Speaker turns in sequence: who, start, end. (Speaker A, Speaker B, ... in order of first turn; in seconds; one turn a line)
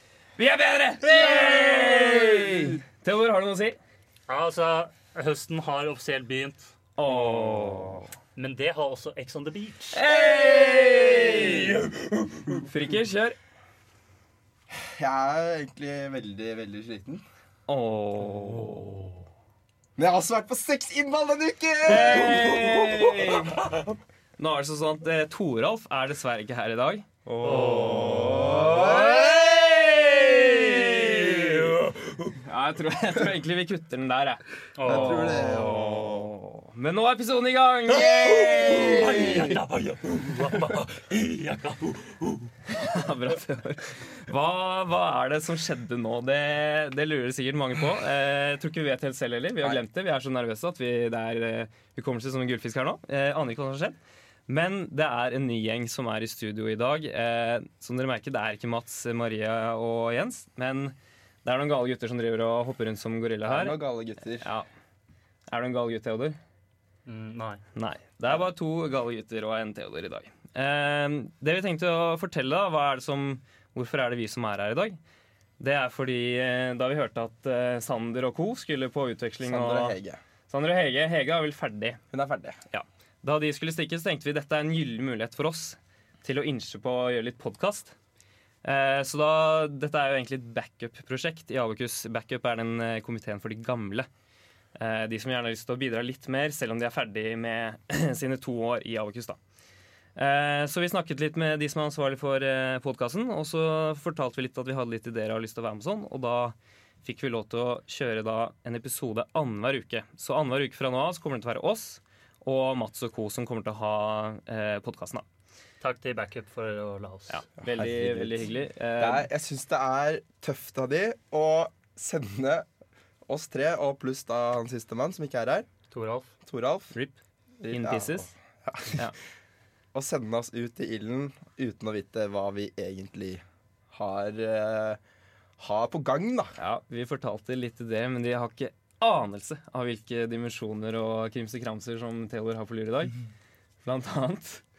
Speaker A: 0.4-3.8
Speaker B: 1.3-2.6
Speaker C: 4.3-6.7
Speaker A: 7.0-8.1
Speaker C: 8.4-10.0
Speaker A: 9.9-11.9
Speaker B: 10.1-11.9
Speaker A: 12.5-13.4
Speaker B: 14.7-17.2
Speaker A: 17.7-19.0
Speaker B: 20.0-23.7
Speaker A: 21.8-23.6
Speaker A: 24.4-27.1
Speaker B: 27.3-29.3
Speaker C: 27.4-29.0
Speaker A: 28.1-31.6
Speaker B: 30.6-31.1
Speaker C: 31.3-31.8
Speaker A: 32.3-39.5
Speaker C: 34.8-35.4
Speaker B: 34.9-36.3
Speaker B: 37.9-39.6
Speaker C: 38.4-42.4
Speaker A: 42.7-54.0
Speaker A: 54.5-63.8
Speaker B: 63.4-64.5
Speaker A: 64.3-64.7
Speaker A: 65.5-66.4
Speaker C: 67.1-67.6
Speaker A: 67.8-75.0
Speaker A: 75.6-80.0
Speaker B: 79.4-80.2
Speaker A: 80.5-82.0
Speaker B: 82.1-82.6
Speaker A: 82.7-88.0
Speaker A: 88.6-94.1
Speaker A: 94.8-99.4
Speaker A: 100.2-115.2
Speaker C: 115.8-117.4
Speaker A: 117.3-119.3
Speaker B: 117.6-122.7
Speaker B: 123.3-125.7
Speaker C: 125.9-126.3
Speaker B: 126.5-126.9
Speaker A: 126.9-127.2
Speaker B: 127.6-129.1
Speaker A: 127.7-128.3
Speaker B: 129.9-135.0
Speaker B: 135.6-136.6
Speaker A: 136.6-143.1
Speaker A: 143.8-144.6